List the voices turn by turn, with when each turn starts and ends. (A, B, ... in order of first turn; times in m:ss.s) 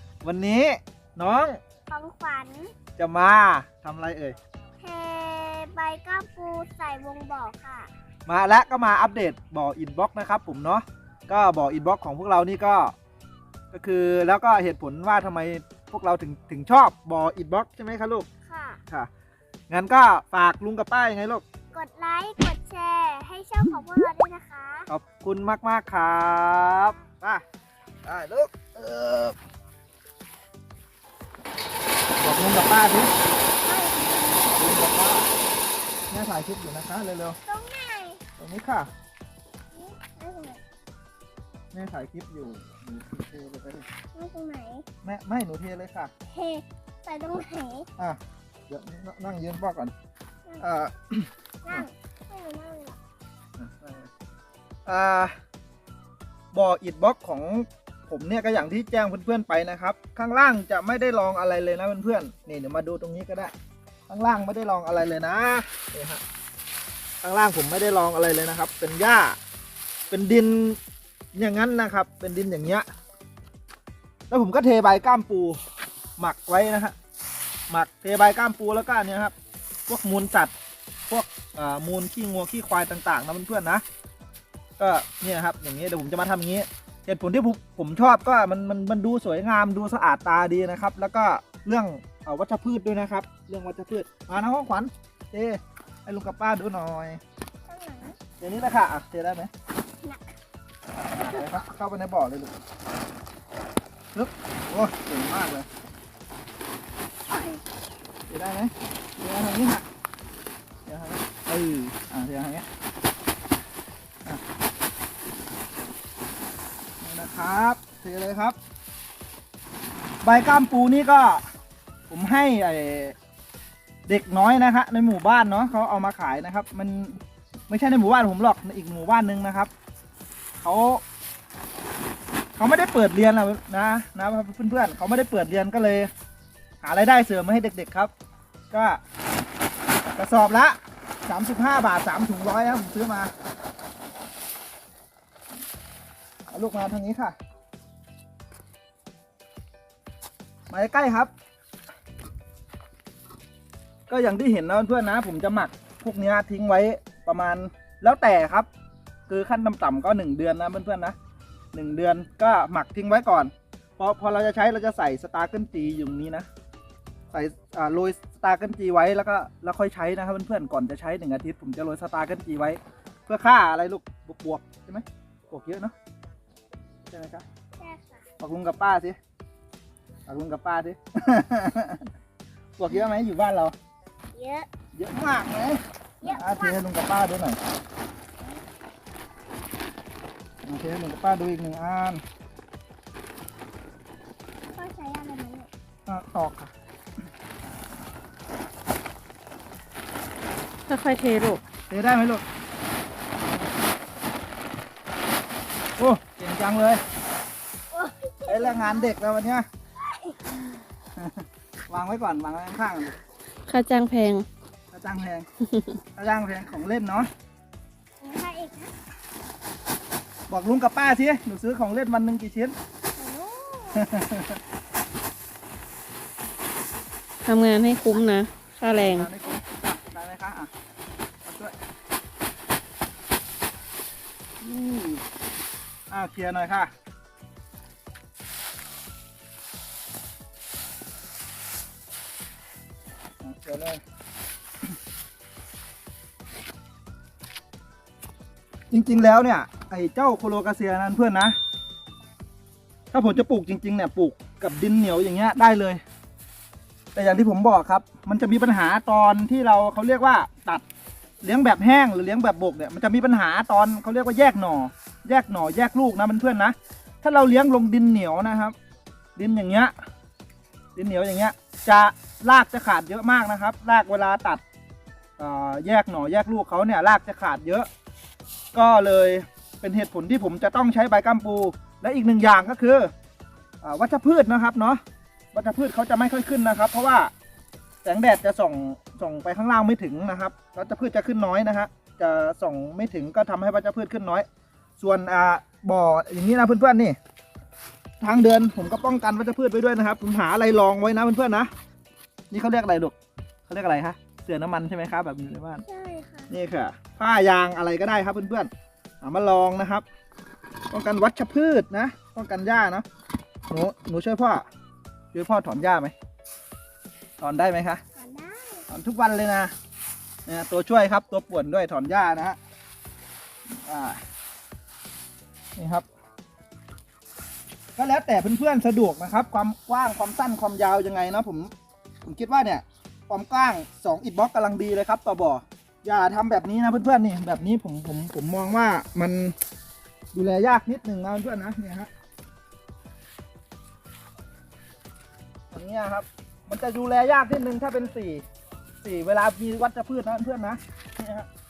0:00.2-0:01.6 A
0:01.9-0:02.7 B
0:03.0-0:04.4 A
0:04.8-0:07.9 B
0:08.2-0:12.9 A
0:13.7-0:18.2 A
0:18.5-0:18.8 B
0:19.7-0:21.4 A
0:21.7-0:24.9 B
0:24.9-0:27.4 A
0:28.0-0:29.4 A
0:32.2-0:33.1 A
0:33.6-0:34.5 B
0:34.5-0:35.3 A
0:36.1-0:37.4 A
0:37.4-0:38.2 B
0:38.4-0:38.9 A
0:39.7-0:40.6 B
0:41.7-0:43.8 A
0:44.1-0:44.8 B
0:45.0-0:46.1 A
0:46.3-0:47.9 B
0:48.0-0:49.9 A
0:50.6-0:51.8 A
0:51.6-0:53.0 B
0:53.6-0:54.1 A
0:54.8-0:55.3 A
0:56.5-1:03.5 A
1:04.1-1:06.2 A
1:07.2-1:09.4 A
1:10.1-1:10.8 A
1:11.3-1:12.8 A
1:14.3-1:15.6 A
1:16.2-1:16.9 A
1:17.7-1:19.3 A
1:19.9-1:20.5 A
1:21.1-1:23.8 A
1:24.8-1:37.2 A
1:37.7-1:38.2 B
1:38.4-1:39.5 A
1:40.0-1:40.3 B
1:41.0-1:42.6 A
1:44.1-1:45.7 A
1:47.3-1:47.6 B
1:48.3-1:49.8 A
1:50.8-1:52.6 A
1:57.0-1:58.6 A
2:00.2-2:01.4 A
2:02.1-2:03.2 A
2:04.1-2:09.7 A
2:10.6-2:11.0 A
2:12.6-2:16.1 A
2:16.8-2:18.1 A
2:18.7-2:19.0 A
2:20.2-2:23.3 A
2:26.5-2:27.4 A
2:30.7-2:31.3 A
2:34.1-2:38.7 A
2:39.3-2:41.1 A
2:41.7-2:46.5 A
2:47.3-2:55.9 A
2:57.1-2:57.4 A
2:57.8-2:58.2 B
2:58.4-2:59.2 A
3:00.3-3:02.1 A
3:02.8-3:03.7 A
3:04.3-3:04.7 B
3:04.9-3:07.6 A
3:06.2-3:06.8 B
3:10.6-3:12.2 A
3:14.7-3:15.7 B
3:16.0-3:16.7 A
3:20.9-3:21.6 C
3:21.9-3:22.4 A
3:26.0-3:27.0 A
3:27.9-3:29.1 B
3:28.5-3:29.7 A
3:30.1-3:30.6 B
3:31.2-3:33.2 A
3:33.7-3:34.4 C
3:34.9-3:35.5 A
3:36.2-3:37.3 A
3:38.2-3:38.9 B
3:40.5-3:42.7 A
3:43.1-3:44.1 B
3:43.9-3:44.6 A
3:47.5-3:49.2 C
3:48.9-3:50.7 A
3:51.4-3:51.7 A
3:54.6-3:55.0 C
3:56.1-3:56.9 A
4:03.4-4:04.0 A
4:08.9-4:11.6 A
4:13.1-4:16.0 A
4:17.1-4:20.8 A
4:21.4-4:28.7 A
4:29.4-4:29.9 A
4:31.0-4:34.6 A
4:35.4-4:37.9 A
4:38.7-4:43.1 A
4:43.8-4:45.0 A
4:45.5-4:47.3 A
4:48.0-4:54.4 A
4:55.0-4:57.2 A
4:58.2-5:01.7 A
5:02.5-5:03.1 A
5:03.7-5:05.8 A
5:05.8-5:06.5 B
5:06.5-5:08.7 A
5:09.2-5:10.0 A
5:10.9-5:13.0 A
5:13.7-5:14.6 A
5:15.3-5:16.1 A
5:17.4-5:18.0 A
5:18.2-5:18.8 B
5:18.9-5:19.7 A
5:20.5-5:22.6 A
5:23.7-5:24.2 A
5:25.8-5:26.0 A
5:28.0-5:31.7 A
5:32.2-5:39.5 A
5:40.3-5:42.1 A
5:45.7-5:48.4 A
5:49.0-5:51.5 A